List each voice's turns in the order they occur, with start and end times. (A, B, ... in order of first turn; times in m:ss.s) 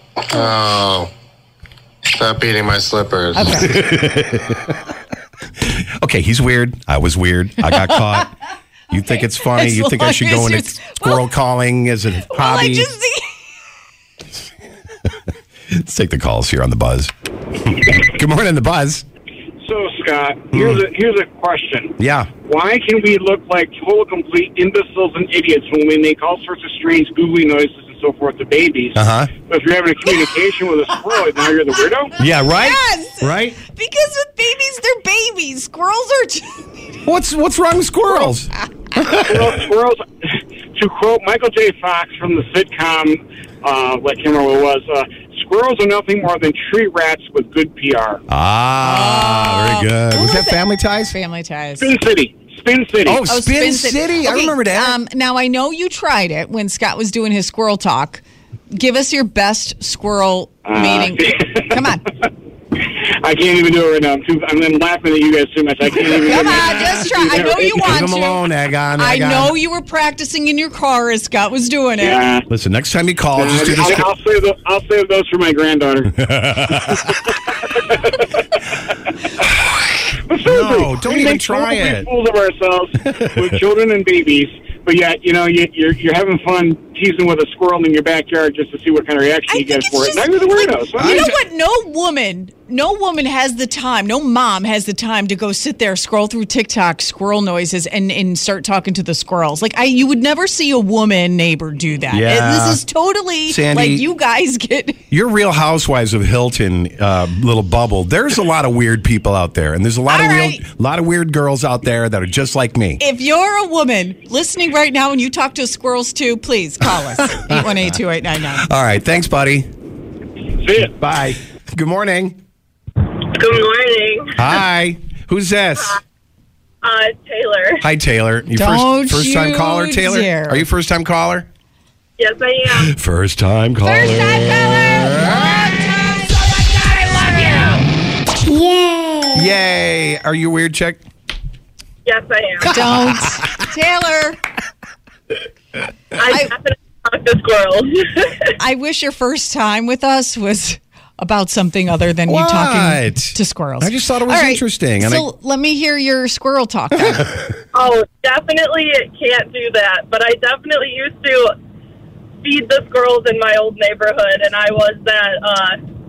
0:00.3-0:01.1 A
0:02.1-0:03.7 A
0:03.3-0:03.7 B
0:03.6-0:04.8 C
0:05.6-0:08.3 C
0:07.7-0:08.0 B
0:08.9-0:12.9 C
0:09.4-0:11.2 B
0:12.2-0:13.5 B
0:15.7-0:19.0 C
0:19.6-0:32.1 D
0:20.5-0:20.8 C
0:22.0-0:22.3 C
0:28.9-0:29.3 C
0:32.2-0:33.6 C
0:32.4-0:37.0 B
0:37.0-0:39.4 C
0:39.1-0:48.2 D
0:48.3-0:51.1 C
0:48.8-0:51.9 B
0:51.8-0:53.2 D
0:53.1-0:55.0 C
0:53.2-1:02.0 B
1:00.6-1:01.8 D
1:02.7-1:08.0 D
1:06.2-1:08.4 B
1:07.7-1:09.5 C
1:09.0-1:12.3 B
1:12.0-1:12.4 D
1:12.5-1:14.1 C
1:13.4-1:18.3 D
1:16.3-1:17.1 C
1:19.9-1:22.1 C
1:20.3-1:31.2 D
1:29.5-1:45.0 B
1:31.0-1:31.3 C
1:42.1-1:42.8 C
1:43.5-1:44.1 C
1:45.1-1:53.0 C
1:50.1-1:50.6 B
1:53.0-1:58.7 B
1:57.4-1:57.6 C
1:58.6-1:59.7 C
2:00.6-2:00.9 D
2:00.8-2:02.4 C
2:03.0-2:04.3 E
2:04.4-2:06.0 C
2:06.8-2:07.8 E
2:07.8-2:11.5 C
2:08.5-2:10.7 B
2:12.2-2:12.9 E
2:12.8-2:15.5 C
2:13.8-2:17.8 B
2:19.3-2:21.0 C
2:22.0-2:22.8 E
2:22.6-2:24.4 B
2:22.8-2:23.2 C
2:26.1-2:28.5 E
2:28.6-2:37.3 B
2:32.3-2:35.2 C
2:37.0-2:37.5 C
2:37.7-2:41.5 E
2:42.4-2:45.8 E